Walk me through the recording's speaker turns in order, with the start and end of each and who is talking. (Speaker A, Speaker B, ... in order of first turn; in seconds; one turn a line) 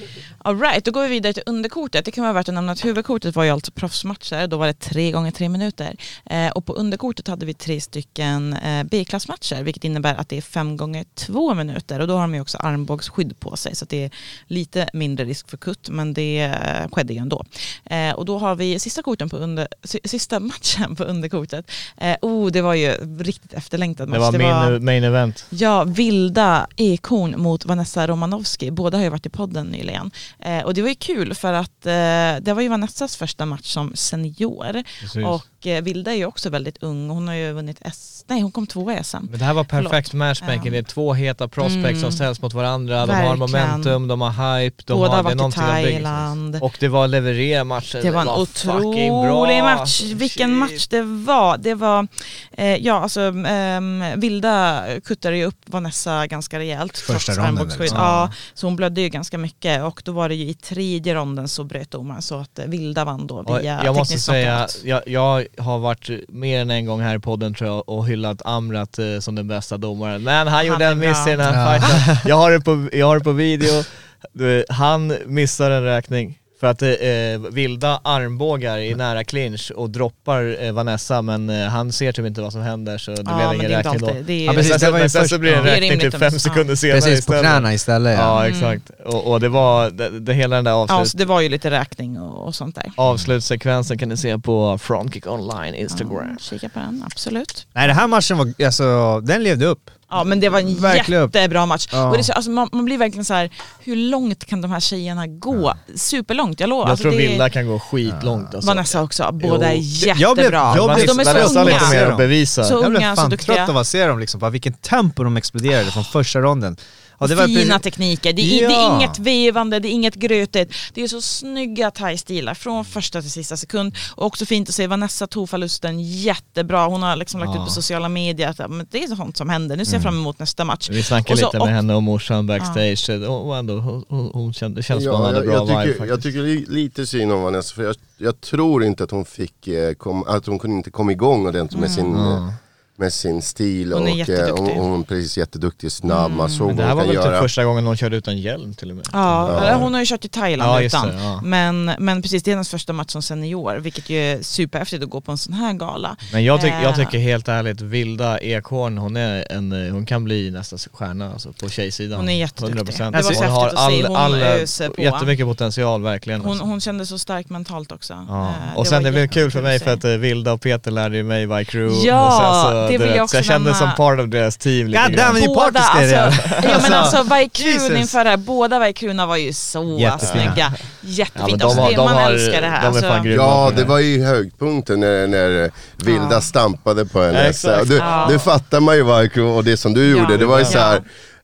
Speaker A: 0.4-24.8
Speaker B: 24.1-25.5
Speaker A: 25.5-40.8
Speaker B: 35.0-35.4
Speaker B: 39.3-50.8
Speaker A: 41.6-42.2
Speaker A: 43.0-44.0
Speaker A: 44.9-46.6
Speaker A: 48.0-64.8
Speaker C: 57.0-58.3
Speaker B: 63.5-91.2
Speaker A: 70.7-71.3
Speaker C: 71.4-72.2
Speaker A: 83.3-86.7
Speaker C: 84.5-85.8
Speaker C: 86.9-88.3
Speaker A: 88.3-88.8
Speaker A: 90.9-93.0
Speaker B: 93.0-96.4
Speaker A: 95.9-97.7
Speaker C: 97.8-100.0
Speaker A: 100.1-107.5
Speaker C: 100.7-101.3
Speaker C: 101.9-102.3
Speaker B: 106.8-109.8
Speaker C: 108.0-108.5
Speaker A: 108.6-113.7
Speaker C: 110.0-117.8
Speaker B: 110.7-112.8
Speaker A: 117.2-131.7
Speaker C: 118.4-119.2
Speaker B: 127.4-127.8
Speaker C: 129.9-130.2
Speaker B: 130.9-136.2
Speaker D: 134.9-147.5
Speaker A: 141.7-142.1
Speaker B: 142.1-142.6
Speaker A: 143.9-144.8
Speaker A: 146.0-146.7
Speaker B: 146.7-149.9
Speaker A: 149.1-157.2
Speaker D: 149.5-149.9
Speaker B: 150.6-151.4
Speaker B: 156.3-166.6
Speaker A: 162.2-165.3
Speaker C: 163.1-163.4
Speaker A: 166.4-170.0
Speaker B: 168.3-175.4
Speaker A: 171.9-174.0
Speaker C: 174.9-178.2
Speaker A: 175.3-183.3
Speaker B: 176.3-177.1
Speaker C: 179.9-180.6
Speaker B: 180.2-180.8
Speaker B: 181.4-183.9
Speaker D: 183.3-191.1
Speaker A: 186.1-186.5
Speaker B: 187.3-188.5
Speaker A: 188.0-188.5
Speaker A: 190.0-191.1
Speaker B: 190.2-190.8